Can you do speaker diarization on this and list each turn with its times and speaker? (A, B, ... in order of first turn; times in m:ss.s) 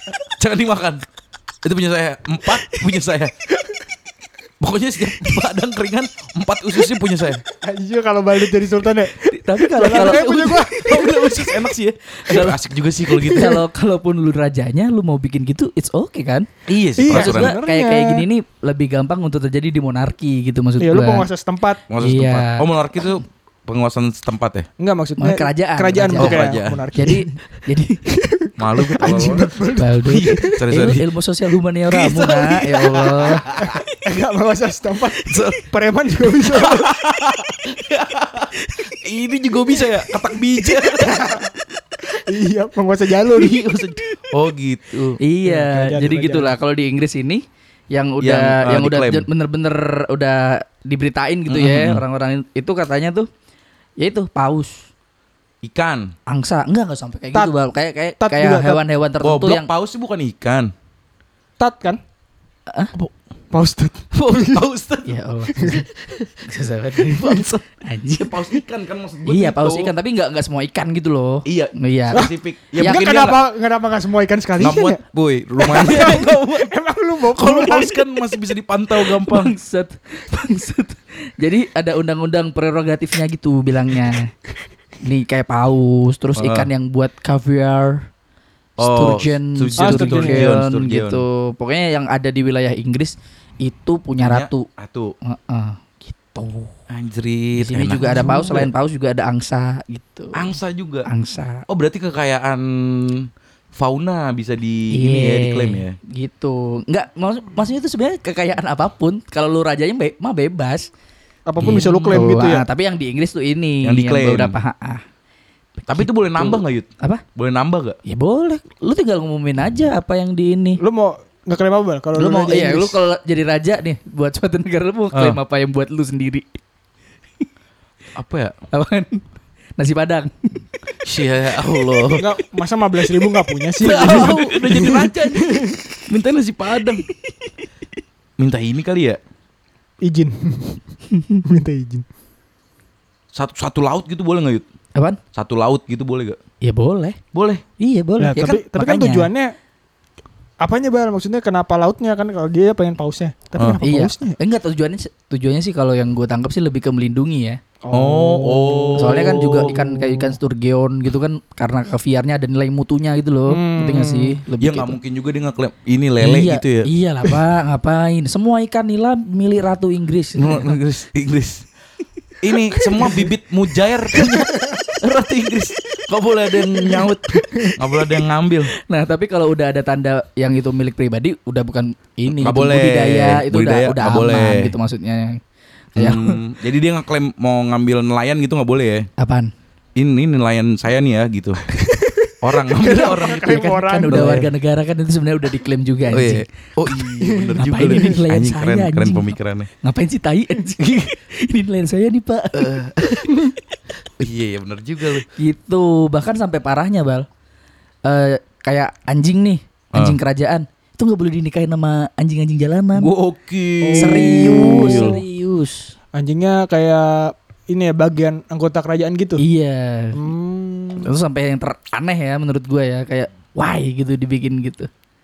0:00.4-0:01.0 A
0:01.6-0:03.3 A
0:04.6-0:07.4 A
0:07.6-0:11.4 B
0:09.2-0:11.0 C
0:09.8-0:13.6 A
0:12.2-0:12.6 C
0:13.3-0:16.5 C
0:16.7-0:17.5 A
0:17.0-0:18.2 B
0:17.1-0:21.3 C
0:20.8-0:21.8 B
0:21.9-0:24.7 A
0:22.0-0:22.6 C
0:24.8-0:27.4 B
0:25.2-0:28.0 C
0:26.2-0:26.9 A
0:28.1-0:30.7 B
0:28.6-0:31.0 A
0:29.0-0:33.6 C
0:31.9-0:33.8 A
0:32.4-0:37.0 B
0:35.2-0:35.6 A
0:36.4-0:41.5 A
0:40.8-0:41.5 B
0:42.1-0:43.6 B
0:43.2-0:45.2 A
0:45.2-0:53.3 C
0:45.4-0:46.6 B
0:48.2-0:49.3 A
0:51.5-0:52.0 A
0:54.0-0:54.9 C
0:55.6-0:56.1 A
0:56.3-0:59.7 C
0:58.2-0:58.8 B
0:59.2-1:00.7 A
1:01.6-1:02.0 B
1:03.5-1:04.6 B
1:04.1-1:09.9 A
1:05.0-1:05.8 C
1:06.4-1:08.4 C
1:09.2-1:12.2 C
1:11.4-1:13.4 A
1:12.1-1:15.0 B
1:12.8-1:13.1 C
1:14.6-1:16.7 A
1:15.6-1:18.0 B
1:17.3-1:19.5 A
1:19.0-1:24.3 C
1:25.0-1:28.0 C
1:26.4-1:26.7 A
1:28.8-1:31.2 A
1:28.8-1:34.7 C
1:29.8-1:30.5 B
1:34.2-1:35.1 A
1:35.2-1:36.7 C
1:36.9-1:38.7 A
1:37.6-1:40.5 C
1:38.1-1:38.6 B
1:40.3-1:41.1 A
1:41.0-1:41.6 C
1:41.7-1:46.0 A
1:44.9-1:50.9 C
1:51.5-1:52.7 B
1:51.6-1:55.0 C
1:53.8-1:54.6 A
1:55.8-1:57.2 C
1:55.9-1:58.0 A
1:58.0-2:00.8 C
2:00.8-2:03.0 B
2:02.2-2:06.4 C
2:05.1-2:05.4 A
2:08.2-2:08.5 A
2:08.7-2:10.6 C
2:11.0-2:12.2 A
2:12.2-2:15.8 B
2:13.8-2:17.0 A
2:13.8-2:15.0 C
2:18.4-2:19.2 A
2:20.0-2:20.8 B
2:21.1-2:21.4 C
2:21.4-2:22.0 B
2:23.3-2:24.6 A
2:25.3-2:26.4 A
2:26.6-2:27.2 C
2:27.3-2:27.6 A
2:27.8-2:29.3 C
2:28.2-2:29.5 B
2:30.6-2:34.3 B
2:33.8-2:37.6 C
2:37.8-2:40.3 B
2:37.9-2:39.8 A
2:39.0-2:45.0 C
2:43.5-2:44.4 B
2:44.6-2:46.9 A
2:46.2-2:50.8 C
2:50.4-2:51.6 A
2:52.4-2:58.7 A
2:54.3-2:54.8 B
2:58.8-3:05.4 C
3:02.3-3:04.7 A
3:06.0-3:06.4 C
3:06.0-3:09.1 A
3:09.2-3:09.5 C
3:10.0-3:11.7 A
3:11.7-3:14.3 B
3:12.4-3:14.5 A
3:13.4-3:16.4 C
3:16.1-3:19.7 A
3:17.2-3:18.2 B
3:17.6-3:23.3 C
3:22.5-3:23.3 A
3:24.2-3:25.2 A
3:25.4-3:27.3 C
3:28.0-3:33.1 C
3:29.9-3:30.2 A
3:33.0-3:35.2 A
3:33.8-3:35.2 B
3:34.0-3:35.9 C
3:36.1-3:39.4 B
3:39.4-3:40.2 C
3:40.1-3:41.1 B
3:41.0-3:44.9 C